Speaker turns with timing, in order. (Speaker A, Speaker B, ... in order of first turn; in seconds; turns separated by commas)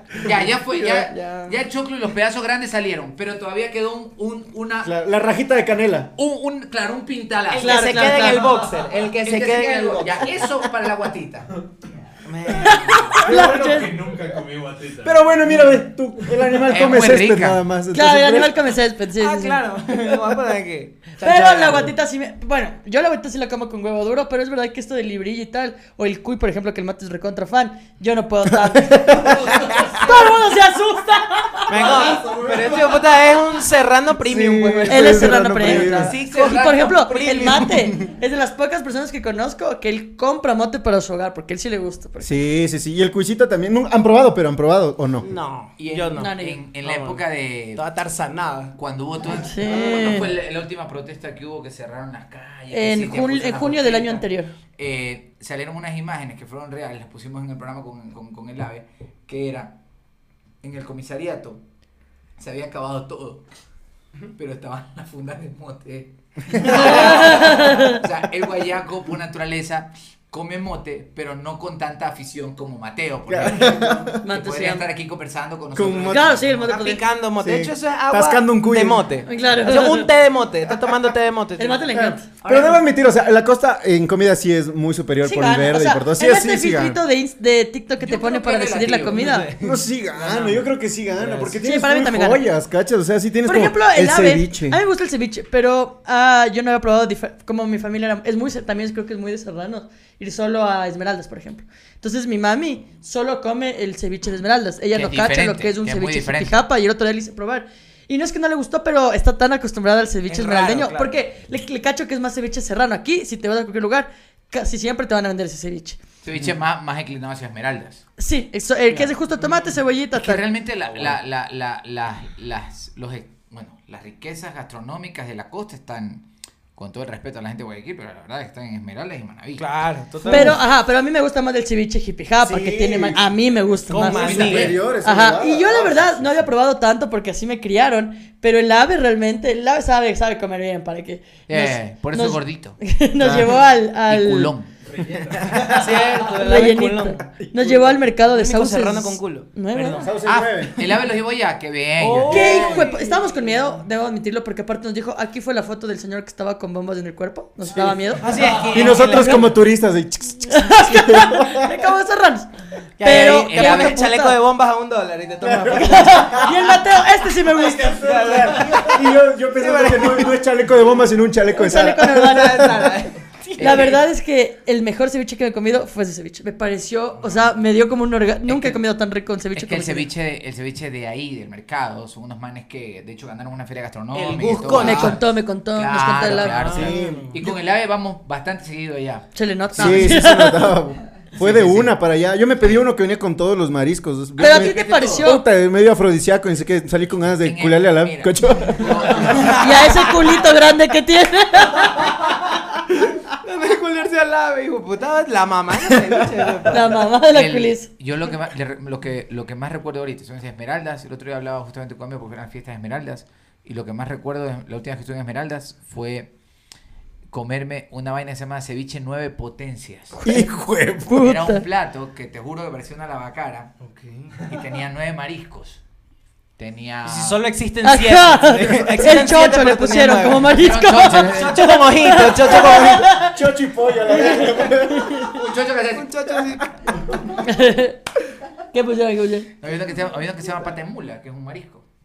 Speaker A: 0.2-4.9, Speaker B: 0.7-1.6, Speaker C: 4.8-6.1, Speaker A: 6.2-8.2, Speaker B: 7.5-10.5, Speaker D: 7.6-8.5, Speaker A: 8.9-11.5, Speaker B: 12.2-13.3, Speaker D: 12.6-14.0, Speaker E: 12.7-15.5, Speaker C: 15.0-18.6, Speaker A: 16.7-17.6, Speaker D: 17.9-19.6, Speaker B: 19.2-21.8, Speaker D: 21.2-29.4, Speaker C: 21.2-21.9, Speaker C: 28.5-30.0, Speaker E: 29.2-30.1, Speaker D: 30.0-31.9, Speaker B: 31.7-37.8, Speaker E: 31.7-33.5, Speaker C: 34.2-36.2, Speaker D: 34.9-42.4, Speaker A: 36.3-37.0, Speaker C: 37.5-37.9, Speaker C: 42.2-45.3, Speaker B: 45.2-47.2, Speaker A: 45.8-47.8, Speaker D: 46.2-46.6, Speaker B: 47.8-48.7, Speaker A: 48.7-54.2, Speaker D: 49.3-50.3, Speaker B: 49.6-50.3, Speaker D: 52.7-54.5, Speaker A: 54.8-59.8, Speaker A: 60.6-61.6, Speaker A: 62.4-63.4, Speaker A: 64.3-76.7, Speaker C: 66.6-66.9, Speaker D: 66.6-68.0, Speaker C: 73.3-74.2, Speaker D: 74.2-74.9, Speaker C: 75.7-76.3, Speaker D: 76.1-77.0, Speaker B: 76.7-82.8, Speaker C: 77.4-79.2, Speaker D: 79.3-80.1, Speaker D: 81.6-82.3, Speaker C: 81.9-87.0, Speaker D: 85.2-89.5, Speaker A: 88.0-89.3, Speaker B: 89.1-91.6, Speaker C: 89.6-94.8, Speaker D: 91.6-92.4, Speaker D: 93.5-116.0, Speaker A: 104.9-106.6, Speaker B: 110.3-111.2, Speaker A: 116.2-118.0, Speaker D: 118.2-120.5, Speaker A: 120.1-129.7, Speaker B: 120.9-121.2, Speaker B: 129.6-130.6, Speaker C: 130.2-130.6, Speaker D: 130.3-144.5, Speaker C: 132.4-133.3, Speaker B: 133.9-134.8, Speaker C: 134.0-136.5, Speaker A: 134.2-134.8, Speaker A: 141.5-142.8, Speaker C: 143.2-143.6, Speaker A: 144.1-144.7, Speaker E: 144.9-145.9, Speaker C: 145.1-145.8, Speaker B: 145.7-150.2, Speaker D: 146.3-150.1, Speaker C: 150.0-150.8, Speaker A: 150.2-152.5, Speaker B: 152.0-153.8, Speaker D: 152.3-158.3, Speaker C: 152.4-152.9, Speaker B: 158.2-159.5, Speaker E: 158.4-158.9, Speaker C: 158.7-161.9, Speaker D: 159.1-159.4, Speaker D: 160.5-164.4, Speaker B: 163.0-166.6, Speaker A: 163.1-164.0, Speaker C: 165.4-166.5, Speaker D: 165.7-167.9, Speaker C: 167.6-172.9, Speaker B: 167.8-170.4, Speaker E: 168.4-168.8, Speaker D: 171.5-172.7, Speaker B: 172.2-173.9, Speaker D: 173.5-180.1, Speaker A: 173.6-174.0, Speaker A: 178.5-178.8, Speaker A: 179.6-190.2, Speaker B: 184.1-185.2, Speaker D: 184.7-186.9, Speaker B: 186.3-187.3, Speaker C: 186.7-187.6, Speaker D: 189.3-190.8, Speaker C: 189.8-199.6, Speaker A: 191.4-192.0, Speaker D: 194.4-195.4, Speaker A: 194.5-195.3, Speaker A: 197.4-199.9, Speaker B: 199.3-200.1, Speaker D: 199.6-202.2, Speaker B: 203.4-207.0, Speaker D: 206.7-207.9, Speaker A: 207.3-216.3, Speaker A: 217.3-220.2, Speaker D: 220.2-220.5, Speaker C: 220.2-221.2, Speaker D: 221.1-221.6, Speaker A: 221.2-223.7, Speaker B: 223.8-224.4, Speaker A: 224.5-225.8, Speaker A: 226.6-227.4, Speaker B: 227.1-233.1, Speaker D: 227.8-233.4, Speaker A: 230.6-231.8, Speaker C: 232.5-235.4, Speaker D: 234.1-235.4, Speaker A: 235.3-236.1, Speaker B: 235.9-237.2, Speaker C: 236.9-237.2, Speaker D: 237.4-238.0, Speaker D: 238.7-239.5, Speaker A: 239.6-241.8